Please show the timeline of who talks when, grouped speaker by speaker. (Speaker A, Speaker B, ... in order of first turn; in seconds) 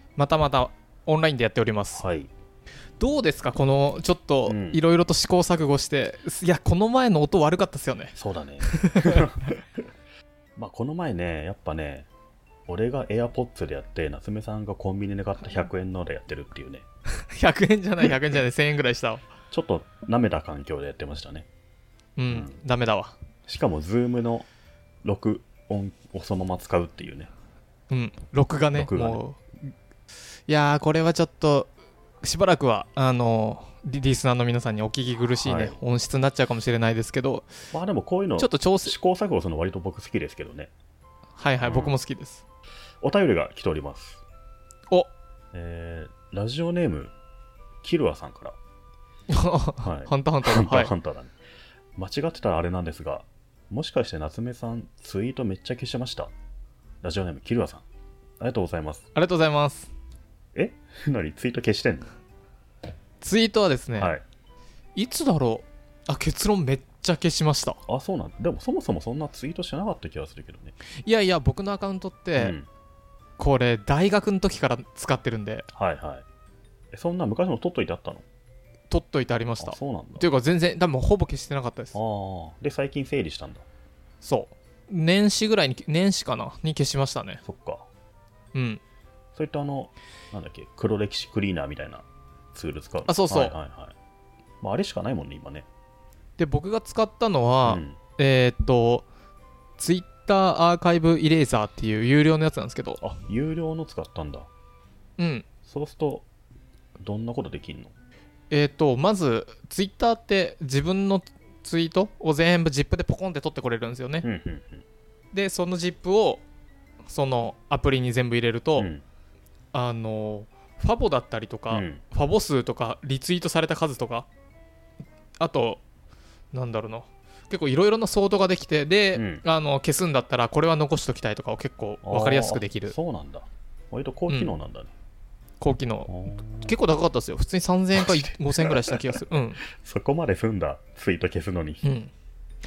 Speaker A: 0.2-2.0, 3.0-8.2, 8.7-9.2, 17.2-19.2, 22.2-23.1, 27.9-29.4, 30.5-31.7, 32.2-37.5, 38.4-39.0, 41.4-42.4, 49.3-50.9, 59.1-59.9, 63.2-64.1, 65.0-67.8, 71.0-72.5, 73.4-75.7, 78.9-82.0, 84.2-87.4, 88.5-88.8, 93.1-93.5, 96.4-99.1, 99.8-103.0, 105.2-105.5, 108.5-114.3, 115.3-116.4, 117.1-118.9, 119.7-124.3, 125.4-125.8, 126.5-132.9, 134.3-134.5, 135.6-139.6, 141.8-142.1
Speaker B: 1.9-2.3, 4.5-4.8, 8.2-9.6, 10.6-12.1, 12.7-16.9, 19.5-21.5, 22.3-22.6, 23.5-24.5, 25.0-27.3, 28.7-29.2, 35.4-35.8, 37.7-40.7, 41.6-42.0, 43.0-44.2, 45.5-47.1, 47.8-48.6, 49.8-51.4, 52.0-56.3, 57.0-57.9, 58.4-59.1, 60.5-62.1, 64.0-64.2, 67.9-70.8, 72.4-72.7, 75.7-76.2, 76.9-78.2, 79.6-80.3, 81.9-83.7, 87.4-87.9, 89.3-93.9, 94.6-95.7, 97.7-98.0, 103.0-104.5, 105.7-106.3, 107.0-107.9, 114.2-114.8, 118.8-119.0, 121.7-122.0, 129.1-129.4, 132.0-134.9, 136.1-136.8, 137.9-139.1, 139.7-141.8